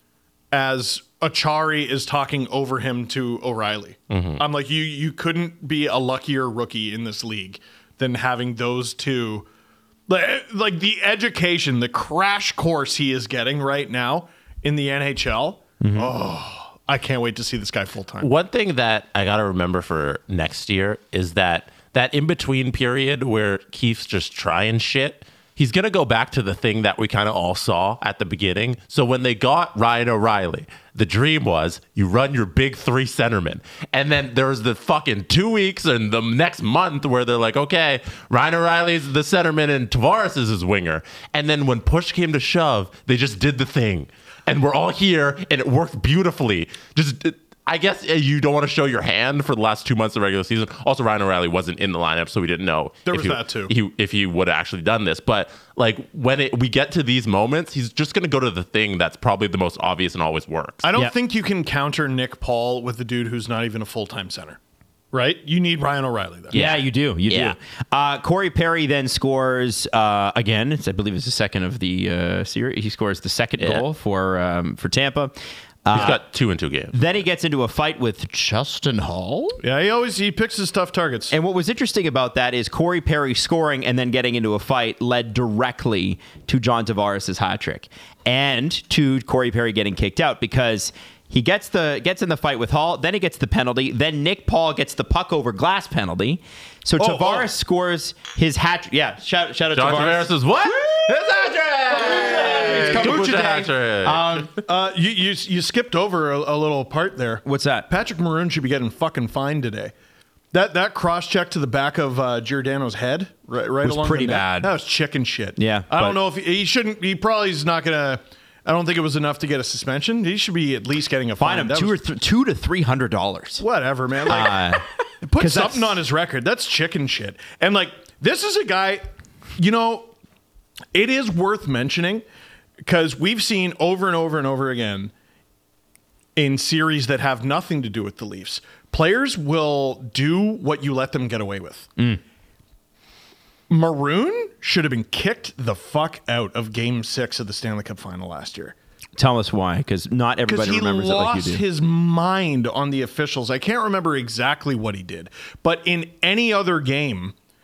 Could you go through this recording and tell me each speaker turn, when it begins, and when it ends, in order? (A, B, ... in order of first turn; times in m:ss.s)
0:00.5-0:09.5 A
0:04.1-0:04.4 B
0:10.1-0:18.3 A
0:15.8-0:16.1 C
0:18.2-1:00.8 B
0:53.1-0:53.7 A
1:00.8-1:04.6 A
1:05.1-1:06.6 A
1:06.5-1:07.6 B
1:06.5-1:15.3 C
1:13.6-1:13.8 B
1:15.8-1:16.2 C
1:15.9-1:17.0 B
1:16.9-1:19.6 C
1:19.6-1:21.3 A
1:21.3-1:41.1 C
1:37.0-1:37.5 A
1:39.7-1:44.5 B
1:41.9-1:44.5 C
1:42.0-1:43.4 A
1:44.6-1:49.9 A
1:47.4-1:47.9 C
1:50.5-2:02.0 A
1:53.8-1:54.7 C
1:55.6-1:56.2 C
2:01.4-2:03.6 C
2:03.6-2:10.1 A
2:04.3-2:04.8 C
2:05.4-2:06.0 C
2:10.9-2:12.2 A
2:12.8-2:15.1 A
2:16.4-2:21.9 A
2:23.7-2:28.8 A
2:29.2-2:31.6 C
2:30.5-2:37.4 A